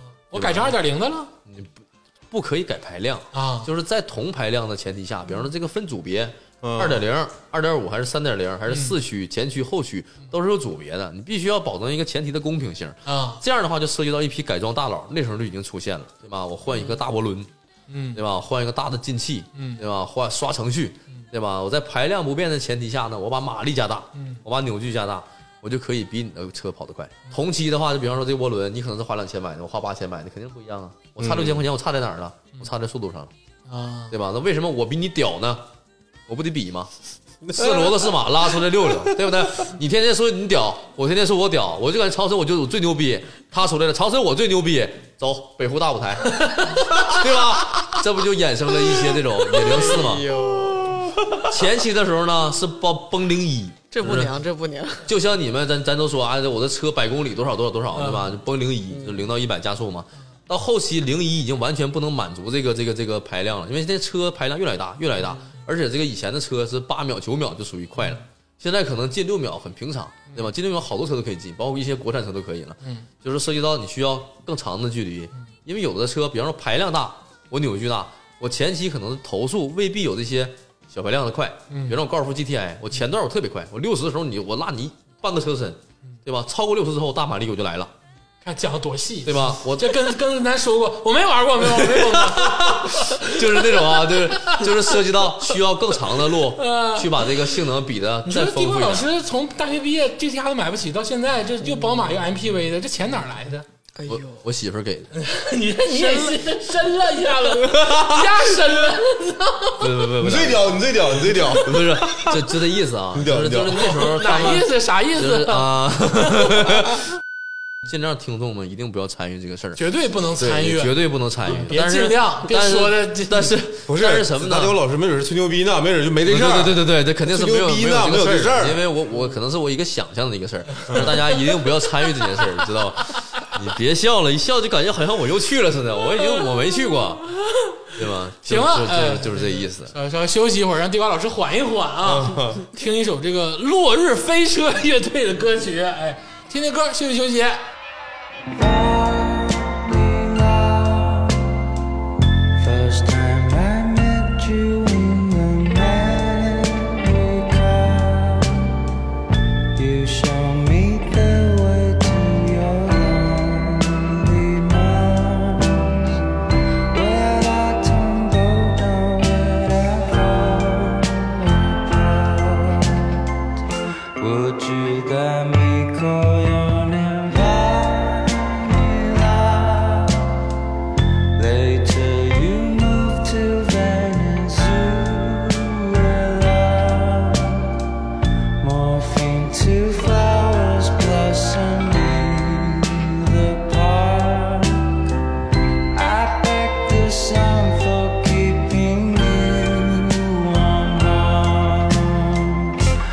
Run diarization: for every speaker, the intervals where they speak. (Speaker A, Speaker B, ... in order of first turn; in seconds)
Speaker A: 0.3-1.3, 3.3-3.7, 8.7-8.9, 13.1-13.4, 17.9-18.2, 19.6-19.8, 24.1-24.4, 33.7-34.1, 46.4-46.9, 57.9-58.3, 81.7-82.0, 88.4-95.1, 96.3-97.6, 98.2-103.7, 105.1-110.0, 113.8-115.7, 116.2-116.6, 119.8-123.5, 138.4-147.6
Speaker B: 0.3-0.7, 1.4-17.5, 18.1-33.3, 34.1-35.7, 36.3-36.9, 37.5-50.3, 51.4-54.3, 55.0-87.9, 89.2-90.1, 91.6-99.1, 104.0-105.1, 107.8-108.3, 109.8-110.9, 111.5-117.1, 117.8-124.8, 126.2-137.2, 137.9-139.9
Speaker C: 6.6-7.0, 110.2-112.1, 113.1-114.1, 123.8-128.8, 142.0-142.6
Speaker D: 49.5-51.1, 53.9-55.1, 58.9-59.2, 104.0-104.4, 105.9-106.4
Speaker E: 148.5-151.6, 152.6-158.8, 159.7-166.2, 166.9-173.2, 174.2-180.3, 181.3-187.8, 188.6-194.9, 195.9-202.7